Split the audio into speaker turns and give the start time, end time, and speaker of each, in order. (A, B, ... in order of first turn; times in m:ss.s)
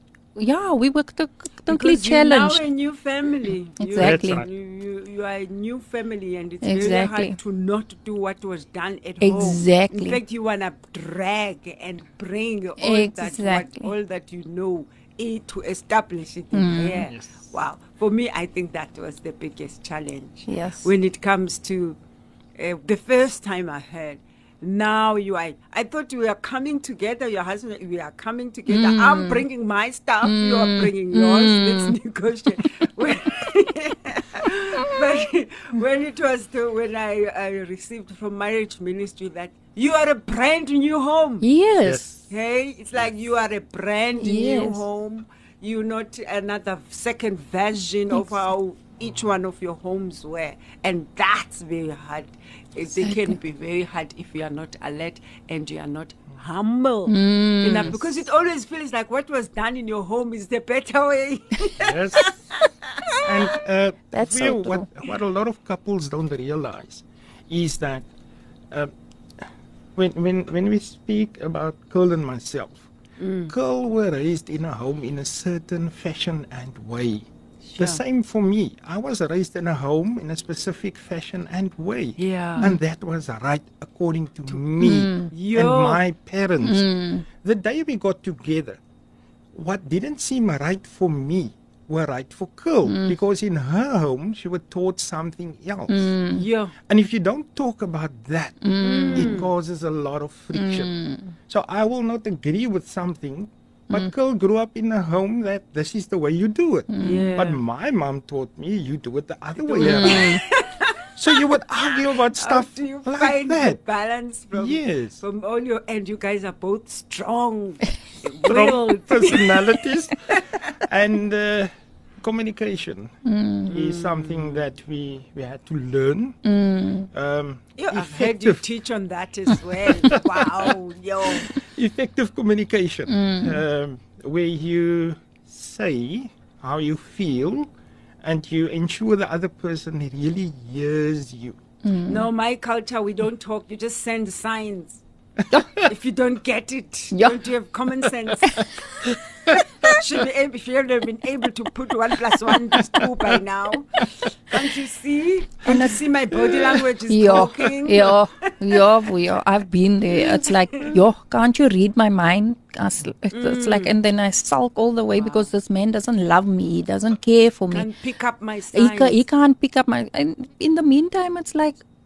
0:00.4-0:02.6 A
0:01.7-0:22.0 B
0:03.8-0:04.4 A
0:04.0-0:04.5 C
0:06.6-0:07.4 A
0:09.2-0:10.2 A
0:12.8-0:13.9 A
0:16.5-0:17.1 A
0:17.1-0:17.4 C
0:20.5-0:20.9 A
0:22.6-0:41.5 B
0:28.7-0:29.4 A
0:30.2-0:32.0 A
0:41.4-0:42.2 A
0:41.8-0:42.1 C
0:42.3-1:03.3 B
0:44.2-0:44.8 A
0:53.0-0:53.4 A
0:57.1-0:58.0 A
1:01.8-1:02.3 C
1:03.2-1:08.1 C
1:04.1-1:04.9 A
1:08.7-1:12.9 C
1:13.2-1:13.5 B
1:13.5-1:17.3 C
1:17.7-1:18.0 B
1:17.8-1:28.8 C
1:22.2-1:22.7 B
1:24.8-1:25.3 A
1:25.3-1:26.0 B
1:26.6-1:27.2 A
1:29.5-1:36.1 C
1:32.9-1:33.1 A
1:35.9-1:36.4 A
1:36.4-1:36.8 B
1:36.8-1:40.9 C
1:38.6-1:39.4 A
1:38.8-1:39.5 B
1:40.5-1:41.4 A
1:41.5-1:50.4 C
1:46.9-1:47.3 A
1:47.0-1:47.6 B
1:49.6-1:59.8 B
1:49.8-1:50.4 A
1:51.2-1:53.8 C
1:54.5-1:55.2 C
1:58.4-2:03.2 C
2:00.3-2:00.8 B
2:03.2-2:03.7 A
2:03.7-2:06.4 C
2:03.7-2:04.6 B
2:06.4-2:07.1 A
2:07.1-2:08.6 C
2:07.8-2:11.6 B
2:09.9-2:10.8 C
2:11.3-2:17.7 C
2:13.1-2:13.6 A
2:18.2-2:21.6 C
2:21.8-2:22.3 A
2:22.1-2:25.0 B
2:25.8-2:38.8 B
2:27.1-2:27.4 A
2:29.1-2:29.9 C
2:32.5-2:33.4 C
2:35.6-2:36.0 A
2:36.4-2:36.8 C
2:37.1-2:47.9 A
2:40.1-2:41.0 B
2:43.3-2:43.9 B
2:45.2-2:45.5 B
2:47.7-2:49.2 B
2:48.7-2:51.8 A